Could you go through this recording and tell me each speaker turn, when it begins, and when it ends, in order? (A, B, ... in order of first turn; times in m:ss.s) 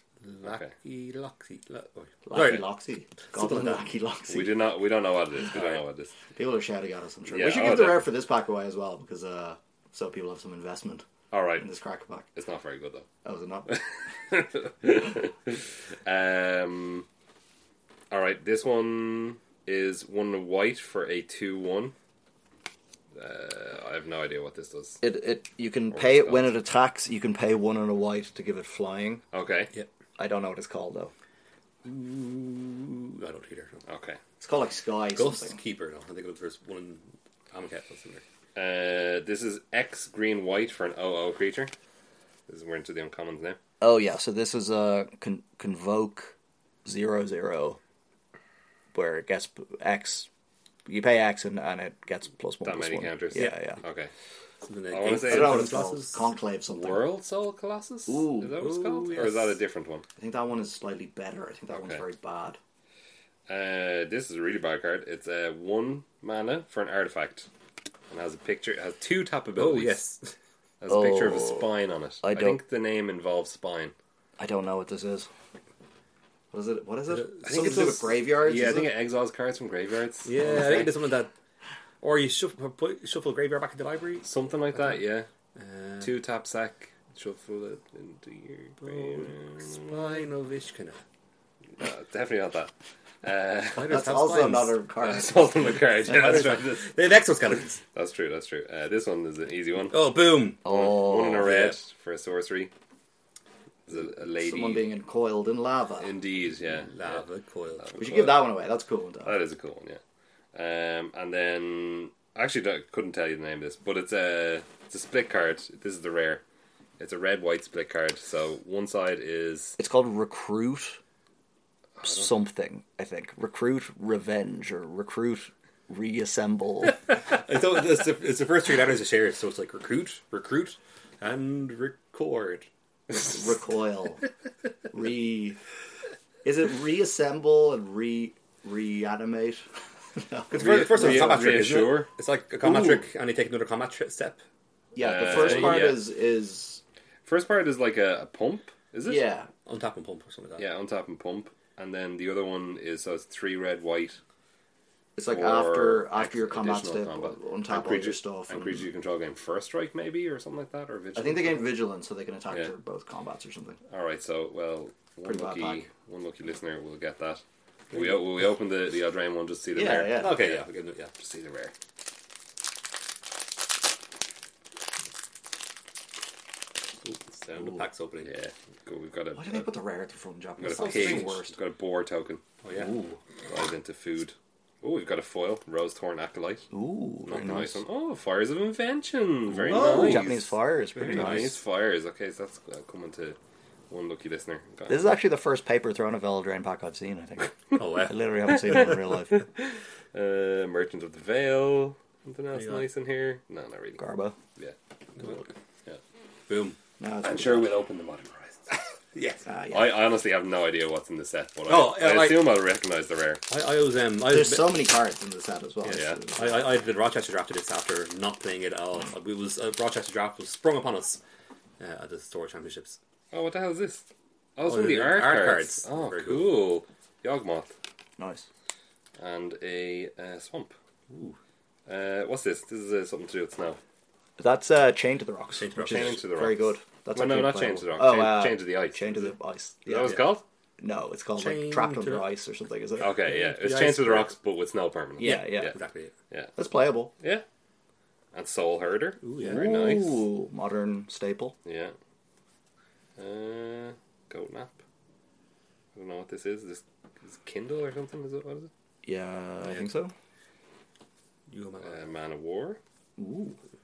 0:00.2-0:02.7 A
0:00.4-0:00.7 B
0:02.2-0:04.6 C
0:03.3-0:03.9 A
0:04.3-0:06.1 B
0:05.5-0:05.8 A
0:06.4-0:11.1 C
0:07.3-0:08.1 B
0:11.3-0:11.7 B
0:11.6-0:12.3 C
0:12.4-0:13.1 B
0:13.2-0:13.8 C
0:13.7-0:17.1 B
0:18.1-0:21.9 B
0:23.2-0:25.0 B
0:25.0-0:29.2 C
0:25.9-0:26.5 B
0:29.3-0:29.7 B
0:30.2-0:31.1 C
0:31.8-0:33.8 A
0:33.9-0:34.2 B
0:34.4-0:35.6 C
0:35.2-0:38.2 A
0:38.6-0:41.7 B
0:42.5-0:43.6 B
0:43.8-0:47.8 C
0:48.9-0:50.3 C
0:50.9-0:53.8 C
0:52.6-0:54.1 B
0:53.3-0:53.7 A
0:54.6-0:56.3 A
0:54.9-0:55.7 B
0:55.2-0:57.1 C
0:56.7-1:00.0 B
0:58.1-0:58.6 C
0:58.6-0:59.6 A
1:00.2-1:02.6 C
1:01.7-1:02.0 B
1:03.5-1:07.5 B
1:08.1-1:10.0 B
1:09.6-1:10.4 A
1:10.8-1:13.9 B
1:10.9-1:11.7 C
1:12.2-1:12.6 C
1:14.4-1:15.3 C
1:16.5-1:18.9 C
1:17.1-1:18.2 A
1:17.4-1:20.9 B
1:20.2-1:21.3 A
1:20.4-1:20.9 C
1:22.0-1:25.0 A
1:24.2-1:25.3 B
1:25.6-1:26.1 A
1:26.0-1:30.2 B
1:28.8-1:31.0 A
1:31.8-1:34.0 B
1:33.8-1:34.8 A
1:33.9-1:35.6 C
1:35.0-1:36.9 B
1:36.1-1:37.8 A
1:37.9-1:40.1 B
1:39.9-1:40.8 A
1:40.6-1:41.5 C
1:40.6-1:42.7 B
1:41.3-1:41.8 A
1:43.9-1:44.9 B
1:44.3-1:46.1 C
1:46.0-1:47.2 B
1:46.9-1:48.0 A
1:47.8-1:48.5 B
1:48.0-1:49.4 C
1:49.2-1:50.0 B
1:50.5-1:56.4 B
1:57.0-1:59.8 B
1:59.8-2:01.0 C
2:02.0-2:02.3 B
2:02.0-2:07.0 C
2:07.2-2:12.7 A
2:13.2-2:14.2 C
2:14.9-2:15.6 C
2:16.4-2:19.6 C
2:20.2-2:21.5 C
2:20.5-2:24.4 A
2:20.5-2:22.1 B
2:22.6-2:23.0 C
2:25.0-2:26.8 C
2:25.0-2:26.1 B
2:25.2-2:25.9 A
2:27.3-2:29.3 B
2:29.0-2:29.5 C
2:29.7-2:30.7 A
2:30.6-2:34.2 B
2:35.2-2:38.8 C
2:35.3-2:41.8 B
2:41.2-2:43.8 C
2:43.9-2:51.7 B
2:45.2-2:45.9 C
2:49.8-2:50.4 C
2:50.2-2:51.1 A
2:57.0-2:58.3 A
2:58.2-2:59.7 B
2:59.4-3:01.5 C
3:00.6-3:02.4 B
3:00.6-3:01.4 A
3:02.6-3:03.0 A
3:02.7-3:03.2 C
3:03.5-3:06.7 B
3:06.7-3:07.8 C
3:07.3-3:10.4 B
3:09.6-3:11.6 A
3:09.6-3:11.6 C
3:11.0-3:13.4 B
3:13.9-3:15.1 B
3:14.9-3:19.5 C
3:17.8-3:18.2 A
3:19.6-3:24.0 B
3:22.6-3:22.9 A
3:24.0-3:24.4 C
3:24.6-3:26.0 B
3:26.5-3:26.8 A
3:27.0-3:27.7 C
3:27.2-3:28.8 B
3:29.2-3:29.5 A
3:29.4-3:30.0 C
3:29.7-3:33.4 B
3:31.7-3:32.5 A
3:33.5-3:34.8 A
3:34.2-3:36.8 C
3:35.8-3:41.2 A
3:35.9-3:36.2 B
3:41.8-3:43.0 A
3:43.3-3:47.7 B
3:44.6-3:46.6 A
3:48.2-3:48.5 C
3:49.2-3:50.7 B
3:51.1-3:51.4 A
3:51.9-3:53.8 B
3:54.4-4:00.3 C
3:55.6-3:56.2 A
3:55.8-3:59.3 B
3:59.9-4:00.4 B
4:00.8-4:03.2 C
4:01.4-4:02.3 A
4:03.0-4:04.3 A
4:03.0-4:05.7 B
4:05.2-4:05.7 C
4:05.2-4:06.1 A
4:06.6-4:07.1 C
4:08.3-4:10.2 B
4:09.2-4:09.8 A
4:09.4-4:11.5 C
4:11.6-4:12.0 B
4:13.2-4:14.8 B
4:16.0-4:18.7 B
4:19.0-4:20.1 C
4:19.6-4:19.9 A
4:21.5-4:22.1 A
4:21.8-4:22.8 B
4:23.2-4:23.6 C